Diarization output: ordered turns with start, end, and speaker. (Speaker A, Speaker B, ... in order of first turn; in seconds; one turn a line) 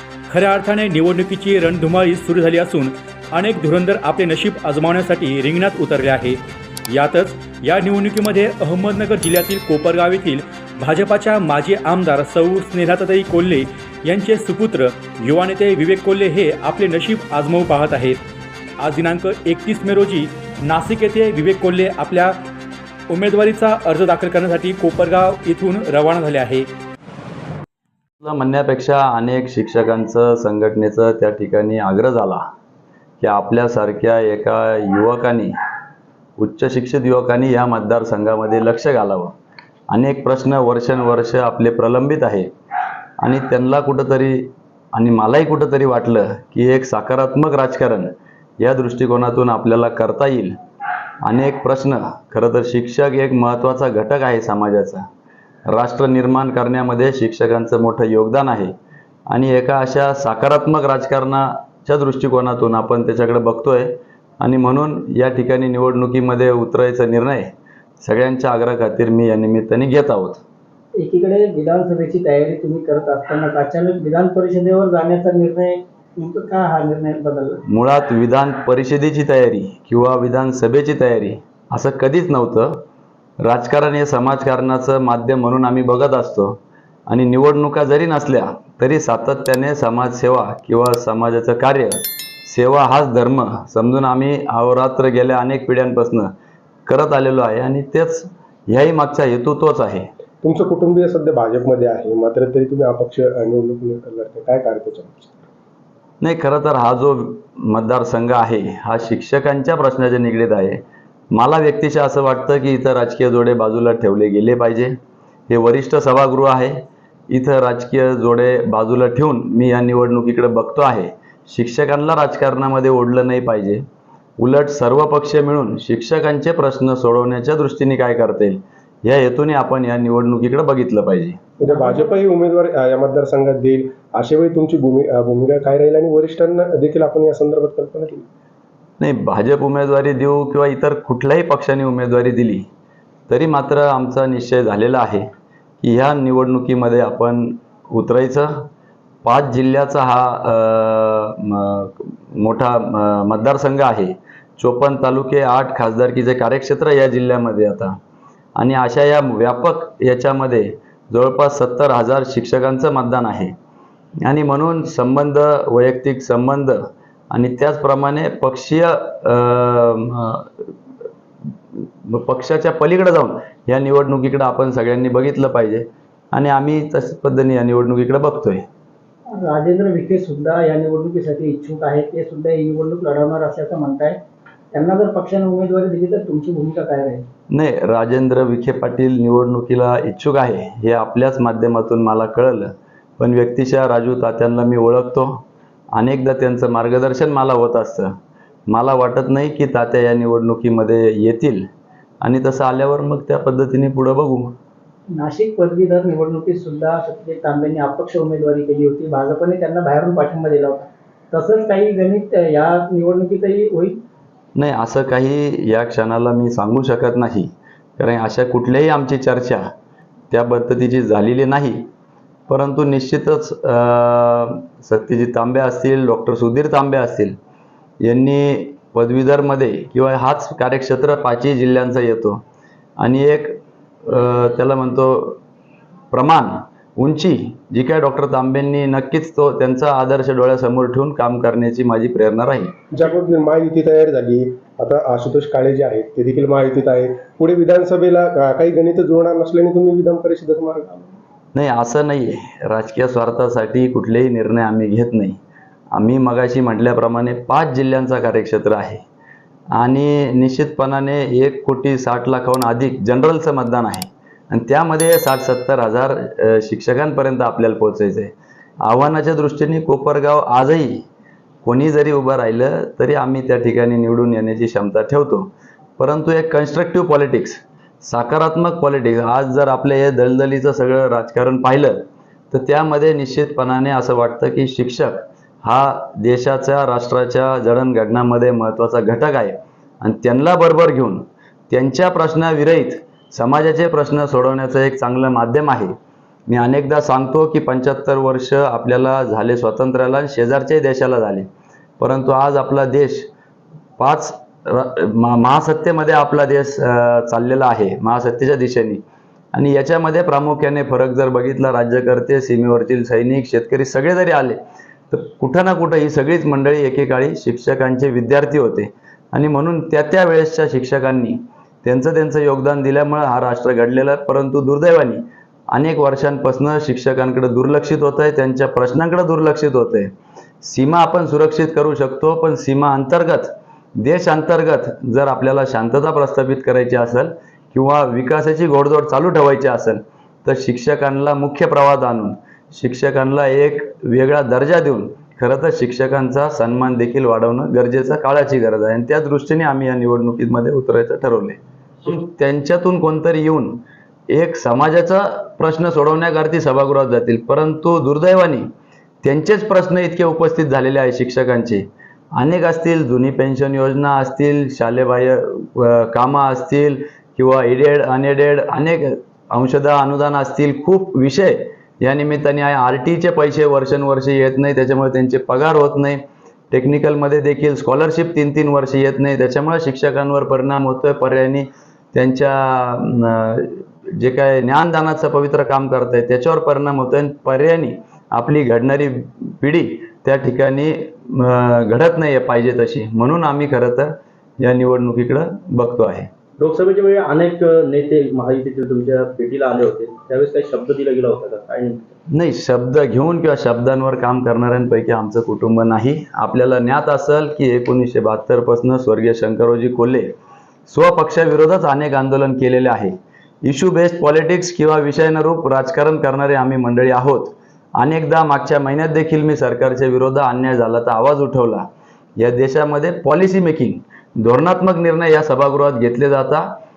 Speaker A: 0.3-18.2
Speaker A: 18.8-22.4
Speaker A: 23.1-26.7
Speaker B: 28.2-32.4
Speaker B: 33.2-35.5
Speaker B: 36.4-39.3
Speaker B: 39.9-42.5
Speaker B: 43.2-50.5
Speaker B: 51.2-55.0
Speaker B: 55.7-58.7
Speaker B: 59.3-67.5
Speaker B: 68.0-70.4
Speaker C: 71.0-77.6
Speaker B: 77.7-82.8
Speaker B: 83.4-96.3
Speaker B: 96.9-100.1
Speaker D: 100.4-105.4
Speaker B: 106.2-110.8
Speaker B: 111.3-114.9
Speaker B: 115.5-123.8
Speaker B: 124.4-131.4
Speaker D: 131.6-138.2
Speaker C: 131.6-132.1
Speaker B: 139.0-142.7
Speaker B: 143.3-145.2
Speaker B: 145.8-148.7
Speaker B: 149.2-158.0
Speaker B: 158.6-163.5
Speaker B: 164.2-170.7
Speaker B: 171.7-178.6
Speaker C: 179.3-184.2
Speaker C: 184.7-187.2
Speaker B: 187.5-198.1
Speaker B: 198.7-201.7
Speaker B: 202.2-204.5
Speaker C: 205.1-214.0
Speaker B: 214.6-219.7
Speaker B: 220.3-221.9
Speaker B: 222.5-227.3
Speaker B: 228.0-232.4
Speaker B: 233.0-235.4
Speaker B: 236.1-242.7
Speaker D: 242.9-251.2
Speaker B: 251.5-255.4
Speaker B: 255.9-259.0
Speaker B: 259.7-271.0
Speaker B: 271.6-295.9
Speaker B: 296.5-301.5
Speaker B: 302.0-303.3
Speaker B: 304.0-309.0
Speaker B: 309.5-314.6
Speaker B: 315.1-330.1
Speaker B: 330.6-358.7
Speaker B: 359.2-361.8
Speaker B: 362.4-396.3
Speaker E: 396.6-402.0
Speaker B: 402.3-410.3
Speaker B: 410.9-413.1
Speaker B: 413.6-421.9
Speaker B: 422.4-426.6